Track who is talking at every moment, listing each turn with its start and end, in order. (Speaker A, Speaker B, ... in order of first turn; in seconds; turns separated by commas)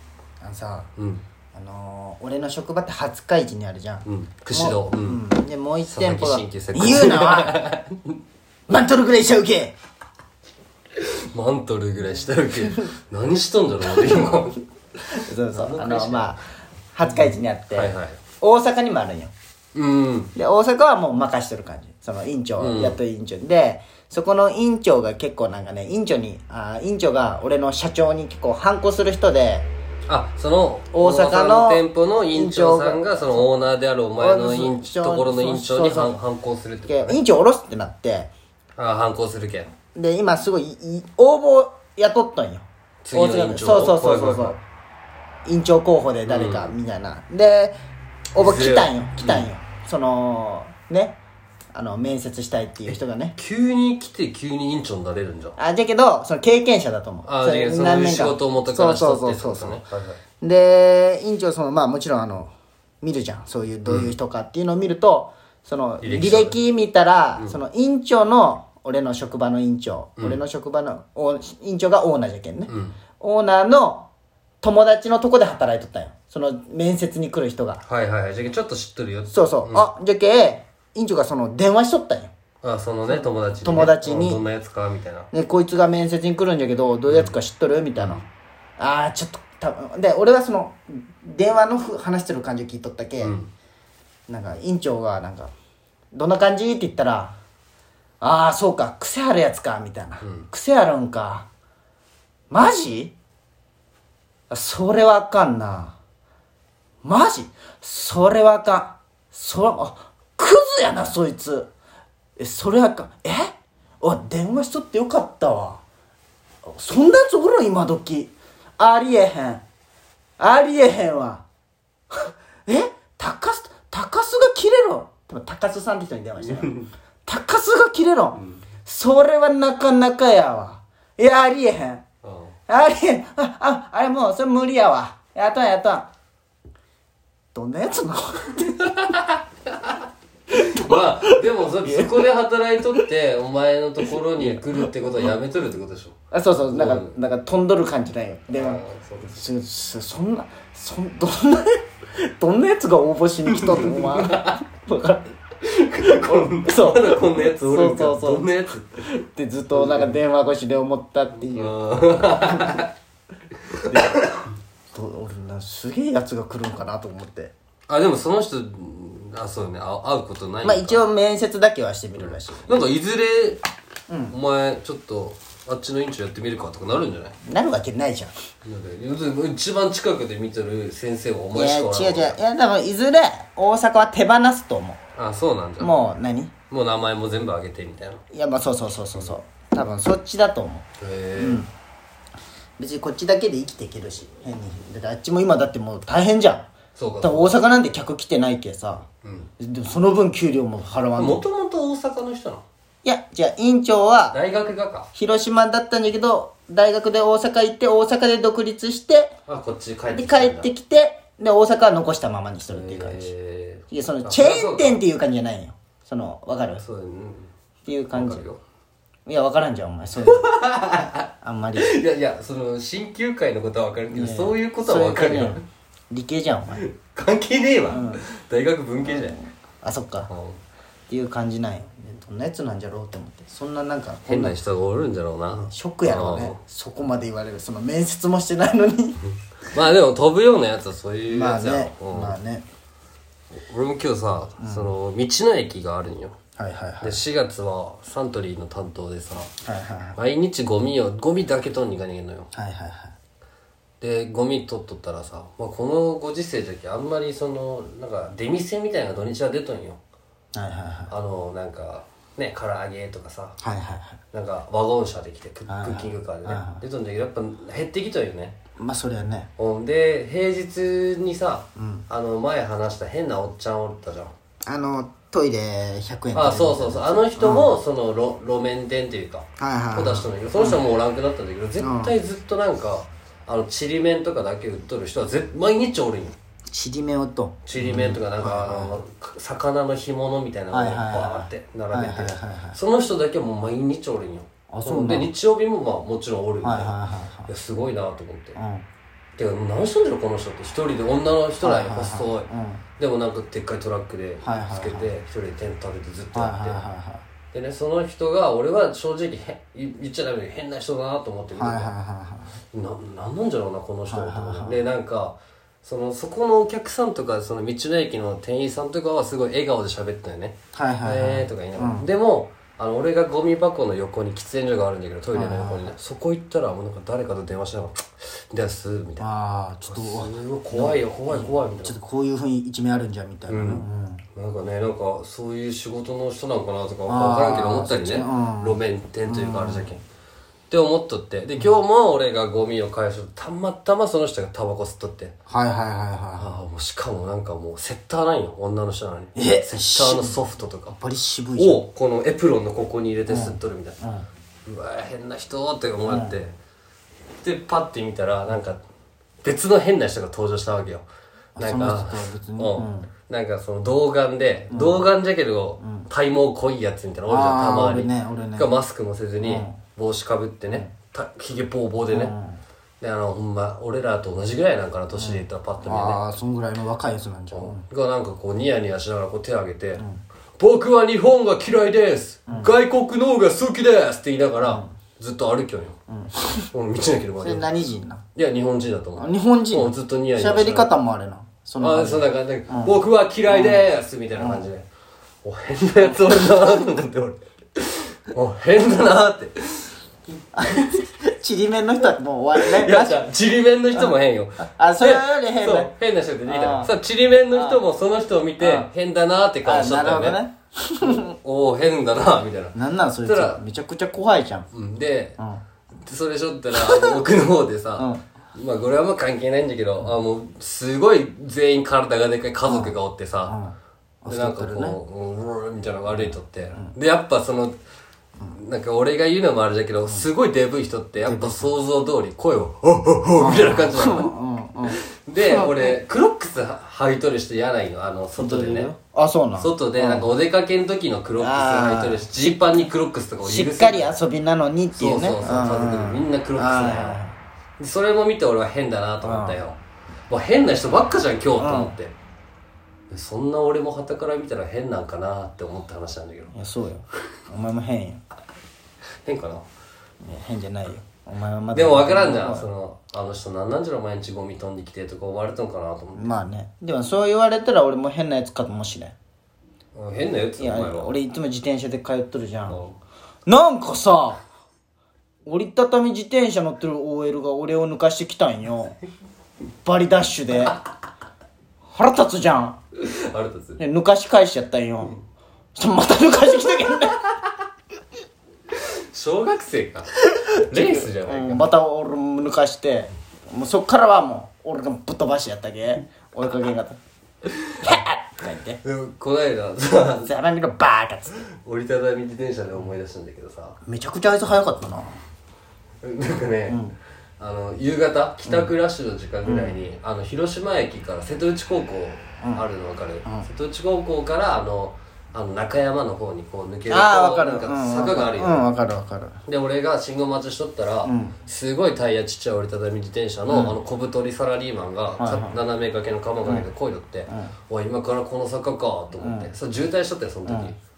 Speaker A: 0.4-0.9, Speaker B: 1.0-1.2, Speaker A: 1.5-7.7, Speaker B: 4.0-5.2, Speaker B: 5.8-8.2, Speaker A: 8.7-9.8, Speaker B: 10.9-14.6, Speaker A: 12.6-12.8, Speaker A: 13.9-14.2, Speaker A: 15.1-19.3, Speaker B: 15.5-16.4, Speaker B: 17.2-18.2, Speaker B: 19.7-20.3, Speaker A: 20.3-29.7, Speaker B: 22.6-23.0, Speaker B: 30.1-37.2, Speaker A: 30.9-33.5, Speaker A: 34.1-36.2, Speaker A: 36.9-38.3, Speaker B: 38.8-39.7, Speaker A: 39.9-44.6, Speaker B: 43.0-44.6, Speaker A: 45.4-47.8, Speaker B: 46.2-46.7, Speaker A: 48.3-51.2, Speaker B: 48.4-49.5, Speaker A: 51.7-53.4, Speaker B: 52.9-55.5, Speaker A: 55.6-59.9, Speaker B: 57.2-60.2, Speaker A: 60.4-74.1, Speaker B: 63.8-64.1, Speaker B: 66.0-66.6, Speaker B: 72.7-73.0, Speaker A: 74.6-77.8, Speaker B: 77.9-79.9, Speaker A: 79.3-82.3, Speaker B: 82.6-85.3, Speaker A: 83.1-84.4, Speaker A: 85.3-88.2, Speaker B: 87.1-87.3, Speaker B: 87.9-88.2, Speaker A: 88.8-93.3, Speaker B: 93.2-93.5, Speaker A: 94.3-95.5, Speaker A: 96.1-97.3, Speaker A: 98.2-101.5, Speaker A: 102.5-103.1, Speaker A: 104.5-106.0, Speaker A: 107.0-111.7, Speaker A: 112.4-115.8, Speaker A: 116.7-119.6, Speaker A: 120.4-121.4, Speaker A: 122.1-132.0, Speaker B: 126.4-126.9, Speaker B: 132.2-132.5, Speaker A: 132.7-136.1, Speaker A: 137.5-139.0, Speaker B: 138.6-146.1, Speaker A: 140.6-142.2, Speaker A: 142.8-143.1, Speaker A: 144.0-144.8, Speaker A: 146.3-155.3, Speaker B: 146.7-147.1, Speaker B: 148.5-149.4, Speaker B: 153.5-154.6, Speaker B: 155.6-159.1, Speaker A: 156.2-158.5, Speaker A: 159.0-162.9, Speaker B: 159.7-160.2, Speaker B: 161.5-162.9, Speaker B: 163.7-164.4, Speaker A: 163.9-164.3, Speaker A: 164.9-167.5, Speaker B: 167.9-171.0, Speaker A: 170.6-172.9, Speaker B: 172.6-173.6, Speaker A: 174.1-174.3, Speaker B: 174.3-177.3, Speaker A: 177.4-178.3, Speaker B: 178.6-182.4, Speaker A: 181.5-185.0, Speaker B: 185.2-185.9, Speaker A: 185.8-186.5, Speaker B: 186.7-188.2, Speaker A: 188.3-191.7, Speaker B: 191.0-191.6, Speaker A: 192.8-196.7, Speaker B: 196.9-197.6, Speaker A: 197.2-199.1, Speaker B: 199.2-199.5, Speaker A: 199.6-201.4, Speaker B: 201.2-202.6, Speaker A: 203.0-204.4, Speaker B: 204.3-205.1, Speaker A: 205.1-209.3, Speaker B: 209.5-210.7, Speaker A: 210.1-213.3, Speaker B: 212.7-215.0, Speaker A: 213.9-216.8, Speaker B: 216.8-217.5, Speaker A: 217.8-218.5, Speaker B: 218.1-218.6, Speaker A: 219.3-220.5, Speaker B: 220.3-221.3, Speaker A: 221.4-221.9, Speaker B: 221.8-225.6, Speaker A: 224.1-226.8, Speaker B: 226.8-229.4, Speaker A: 227.9-228.2, Speaker A: 229.0-230.3, Speaker B: 230.3-230.6, Speaker A: 231.1-234.6, Speaker B: 234.3-236.6, Speaker A: 235.5-239.2, Speaker B: 239.2-242.4, Speaker A: 241.3-242.7, Speaker B: 243.5-246.3, Speaker A: 244.6-244.9, Speaker A: 246.6-247.2, Speaker B: 247.0-249.5, Speaker A: 249.6-250.2, Speaker B: 250.2-252.5, Speaker A: 252.5-253.1, Speaker B: 254.0-260.0, Speaker A: 260.5-261.1, Speaker B: 261.1-263.6, Speaker A: 263.6-264.2, Speaker B: 264.3-268.6, Speaker A: 265.6-266.8, Speaker A: 268.8-269.5, Speaker B: 269.6-274.3, Speaker A: 271.8-272.1, Speaker A: 274.6-277.7, Speaker B: 276.3-286.4, Speaker A: 279.6-280.8, Speaker A: 281.8-282.1, Speaker A: 286.7-288.9, Speaker B: 287.6-296.9, Speaker A: 290.7-292.8, Speaker A: 294.7-295.3, Speaker A: 296.6-297.5, Speaker B: 297.5-298.6, Speaker A: 298.5-298.9, Speaker B: 299.4-306.9, Speaker A: 301.6-302.8, Speaker A: 304.4-305.1, Speaker A: 306.3-307.2, Speaker B: 307.5-311.9, Speaker A: 311.5-312.6, Speaker B: 312.7-329.2, Speaker A: 314.1-314.9, Speaker A: 320.7-322.1, Speaker A: 325.3-325.9, Speaker A: 329.2-334.2, Speaker B: 329.9-331.9, Speaker B: 333.5-333.8, Speaker B: 334.3-340.0, Speaker A: 337.1-339.9, Speaker B: 340.7-345.4, Speaker A: 345.5-346.6, Speaker B: 346.4-351.0, Speaker A: 349.3-350.4, Speaker A: 350.9-351.9, Speaker B: 351.6-354.0, Speaker A: 353.3-354.3, Speaker B: 354.6-356.5, Speaker A: 356.1-356.3, Speaker B: 357.4-358.8, Speaker B: 359.4-361.1, Speaker A: 361.6-363.1, Speaker B: 361.6-372.3, Speaker A: 364.7-365.1, Speaker A: 365.8-366.1, Speaker A: 367.3-368.7, Speaker A: 369.4-369.8, Speaker A: 370.7-370.9, Speaker A: 372.1-372.6, Speaker B: 373.0-376.2, Speaker A: 375.1-377.8, Speaker B: 377.5-380.0, Speaker A: 380.0-380.2, Speaker B: 380.6-386.0, Speaker A: 384.6-384.9, Speaker A: 386.1-386.7, Speaker B: 386.7-387.7, Speaker A: 387.4-388.2, Speaker B: 388.3-390.9, Speaker A: 389.2-394.7, Speaker B: 391.8-394.9, Speaker B: 395.4-399.9, Speaker A: 396.0-396.6, Speaker A: 400.5-403.3, Speaker B: 400.6-401.0, Speaker B: 402.6-410.4, Speaker A: 403.9-405.9, Speaker A: 406.5-406.9, Speaker A: 407.5-407.8, Speaker A: 408.6-408.9, Speaker A: 409.6-411.4, Speaker B: 411.0-413.6, Speaker A: 412.7-414.7, Speaker B: 414.7-415.4, Speaker B: 416.0-423.6, Speaker A: 416.7-417.1, Speaker A: 418.0-418.2, Speaker A: 422.6-422.9, Speaker A: 423.4-425.0, Speaker B: 424.3-427.8, Speaker A: 426.1-426.9, Speaker B: 428.5-434.3, Speaker A: 431.2-431.7, Speaker A: 433.4-435.9, Speaker B: 434.9-438.9, Speaker A: 438.4-440.3, Speaker B: 439.6-444.1, Speaker A: 441.4-442.9, Speaker A: 443.4-447.4, Speaker B: 444.9-447.2, Speaker B: 447.8-449.8, Speaker A: 449.2-449.6, Speaker B: 450.3-452.1, Speaker A: 451.6-451.9, Speaker B: 453.1-456.5, Speaker A: 456.5-458.2, Speaker B: 459.2-459.6, Speaker A: 460.2-462.7, Speaker B: 461.7-466.3, Speaker A: 466.1-469.1, Speaker B: 469.9-471.2, Speaker A: 470.6-472.8, Speaker B: 472.7-473.0, Speaker A: 473.4-474.4, Speaker A: 475.4-479.0, Speaker A: 479.8-480.8, Speaker A: 481.9-482.8, Speaker B: 483.0-483.8, Speaker A: 483.8-485.2, Speaker A: 485.7-487.3, Speaker B: 488.7-490.1, Speaker A: 490.3-497.0, Speaker B: 490.7-491.7, Speaker B: 497.4-498.0, Speaker A: 497.8-498.8, Speaker B: 498.8-500.3, Speaker A: 500.1-501.5, Speaker B: 501.5-503.8, Speaker A: 503.8-505.2, Speaker B: 506.0-506.8, Speaker A: 506.7-507.0, Speaker B: 507.4-518.7, Speaker A: 508.4-508.7, Speaker A: 509.4-509.8, Speaker A: 516.9-519.4, Speaker B: 519.5-530.8, Speaker A: 521.0-521.4, Speaker A: 523.5-523.8, Speaker A: 525.2-525.6, Speaker A: 527.3-527.5, Speaker A: 529.2-529.5, Speaker A: 530.5-530.7